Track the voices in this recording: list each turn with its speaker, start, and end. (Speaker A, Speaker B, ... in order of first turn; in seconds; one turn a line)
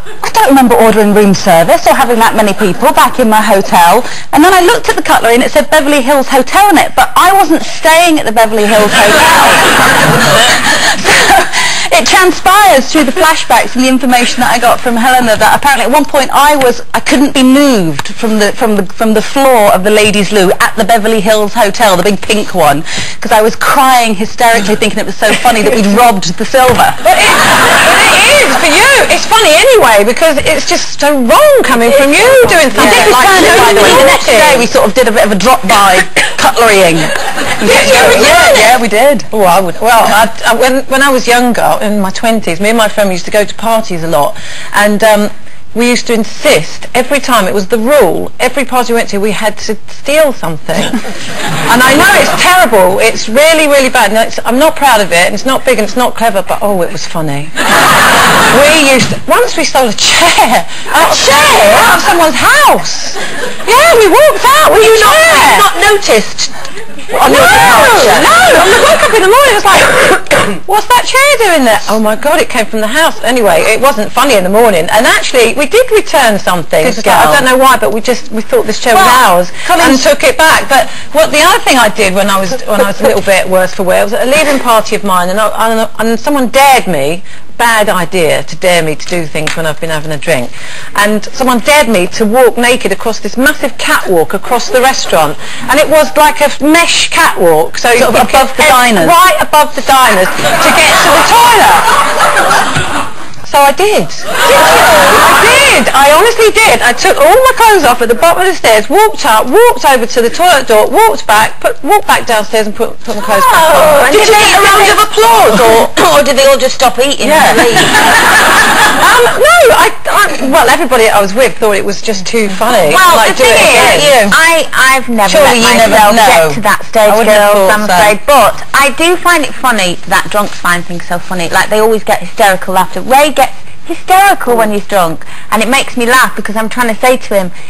Speaker A: 0.2-27.0
Speaker B: 27.0-34.7
Speaker A: 32.7-39.3
Speaker B: 37.6-38.8
Speaker B: 39.3-51.0
Speaker B: 51.7-57.6
Speaker B: 58.5-65.7
Speaker C: 64.8-66.5
Speaker B: 67.1-101.9
Speaker C: 67.2-68.0
Speaker A: 76.8-77.5
Speaker A: 78.9-80.0
Speaker A: 98.0-99.2
Speaker B: 103.5-104.5
Speaker B: 105.1-114.5
Speaker D: 113.5-115.0
Speaker A: 113.7-115.0
Speaker C: 114.3-115.9
Speaker D: 115.7-118.0
Speaker A: 117.2-117.8
Speaker B: 117.2-118.0
Speaker B: 118.8-124.2
Speaker D: 122.9-137.5
Speaker A: 123.6-124.4
Speaker A: 125.3-128.2